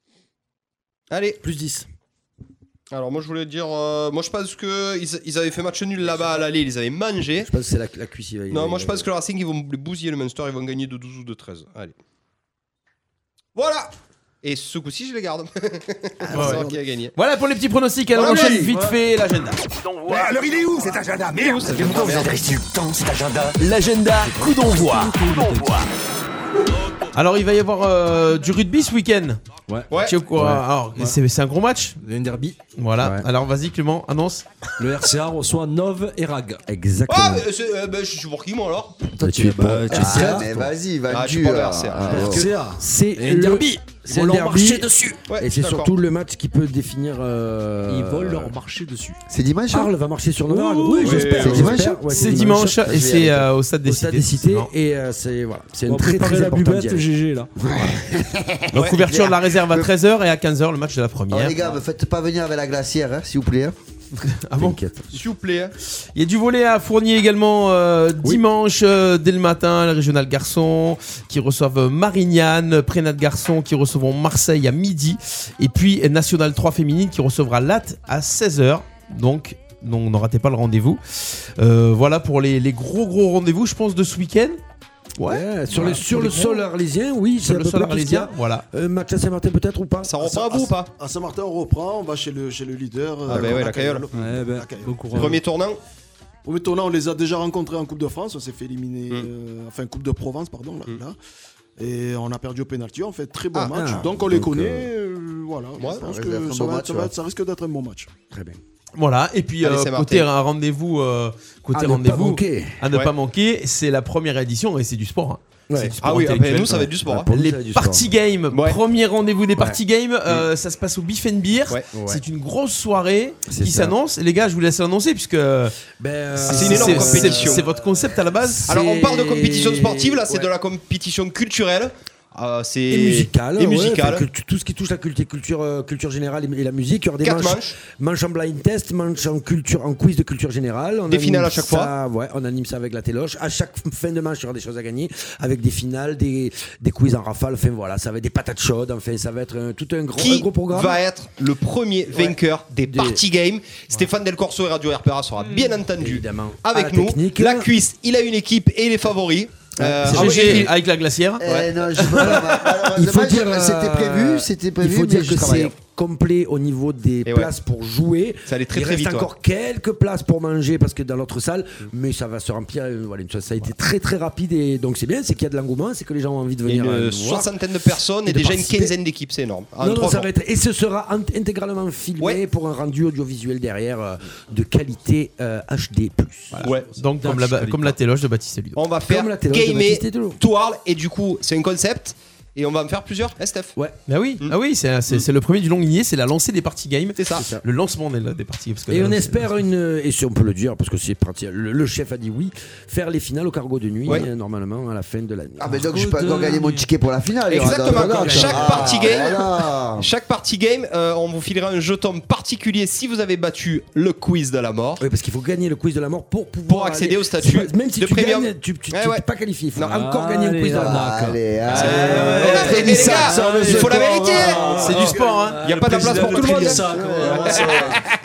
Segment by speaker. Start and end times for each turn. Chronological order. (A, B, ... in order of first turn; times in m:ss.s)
0:01.1-0:01.4 A
0:01.4-0:01.9 B
0:02.9-0:07.5 A
0:07.4-0:09.1 B
0:08.5-0:12.0 A
0:13.5-0:17.2 A
0:16.3-0:19.6 C
0:18.1-0:18.7 A
0:18.2-0:18.8 B
0:19.8-0:23.6 D
0:21.3-0:21.9 A
0:22.0-0:22.3 B
0:23.6-0:25.6 C
0:24.3-0:24.5 B
0:24.4-0:25.8 E
0:25.6-0:25.8 D
0:27.1-0:29.4 C
0:29.9-0:30.2 A
0:29.9-0:32.0 C
0:30.4-0:30.6 B
0:32.0-0:32.6 E
0:32.8-0:34.4 C
0:33.0-0:33.3 B
0:34.8-0:36.6 E
0:36.7-0:37.4 B
0:37.1-0:39.0 A
0:39.2-0:40.7 E
0:39.2-0:40.5 B
0:39.9-0:42.5 F
0:41.1-0:42.3 A
0:42.0-0:45.1 E
0:42.1-0:48.5 B
0:44.6-0:45.2 D
0:45.3-0:46.0 A
0:47.8-0:49.2 E
0:49.3-0:49.9 F
0:49.7-0:53.2 B
0:50.5-0:51.8 E
0:51.0-0:51.8 A
0:51.4-0:52.1 F
0:52.1-0:54.7 C
0:52.8-0:53.5 F
0:53.8-0:57.1 B
0:55.9-0:57.5 E
0:57.6-0:59.9 F
0:58.7-1:01.6 C
0:58.7-0:59.0 A
1:01.3-1:03.8 F
1:04.3-1:04.8 C
1:04.6-1:05.1 B
1:05.1-1:05.7 A
1:06.1-1:24.6 C
1:25.2-1:26.7 C
1:25.2-1:30.8 B
1:27.4-1:28.6 C
1:30.0-1:30.9 A
1:31.0-1:35.4 G
1:33.3-1:34.2 A
1:33.3-1:33.7 B
1:34.1-1:35.4 E
1:35.1-1:35.8 A
1:36.4-1:41.2 G
1:41.8-1:48.1 G
1:43.5-1:44.9 B
1:45.8-1:46.1 A
1:46.0-1:47.1 F
1:48.3-1:48.6 B
1:49.0-2:05.7 C
1:49.6-1:50.3 A
1:51.7-1:52.8 B
1:55.7-1:58.1 B
1:55.7-1:57.3 A
1:58.5-1:58.8 A
2:01.9-2:02.2 B
2:03.5-2:04.0 B
2:06.0-2:10.5 B
2:06.4-2:08.7 C
2:06.4-2:07.6 A
2:08.7-2:14.2 A
2:12.9-2:31.0 B
2:17.2-2:17.8 A
2:21.1-2:21.9 A
2:30.2-2:40.7 A
2:32.1-2:33.2 B
2:36.0-2:37.7 B
2:39.8-2:40.7 B
2:40.0-2:41.4 C
2:41.4-2:45.7 F
2:41.4-2:41.7 A
2:42.0-2:42.4 C
2:42.1-2:57.5 B
2:47.2-2:47.5 A
2:48.5-2:49.3 A
2:56.6-3:00.3 A
2:58.2-2:58.9 B
2:59.8-3:06.6 B
3:06.5-3:08.8 C
3:06.6-3:06.9 A
3:06.9-3:08.0 E
3:08.8-3:13.7 A
3:09.0-3:10.4 B
3:14.1-3:19.5 C
3:17.2-3:17.4 A
3:17.3-3:17.6 B
3:18.9-3:25.8 B
3:25.6-3:30.1 F
3:25.7-3:26.9 E
3:27.5-3:35.0 A
3:27.5-3:29.1 B
3:28.2-3:28.6 G
3:35.0-3:44.1 B
3:36.7-3:39.2 A
3:39.8-3:41.4 E
3:40.7-3:44.2 F
3:41.7-3:44.6 A
3:41.8-3:43.3 C
3:42.0-3:48.0 E
3:42.8-3:45.5 G
3:44.7-3:45.6 C
3:45.6-3:48.0 A
3:46.1-3:46.7 B
3:46.5-3:48.0 F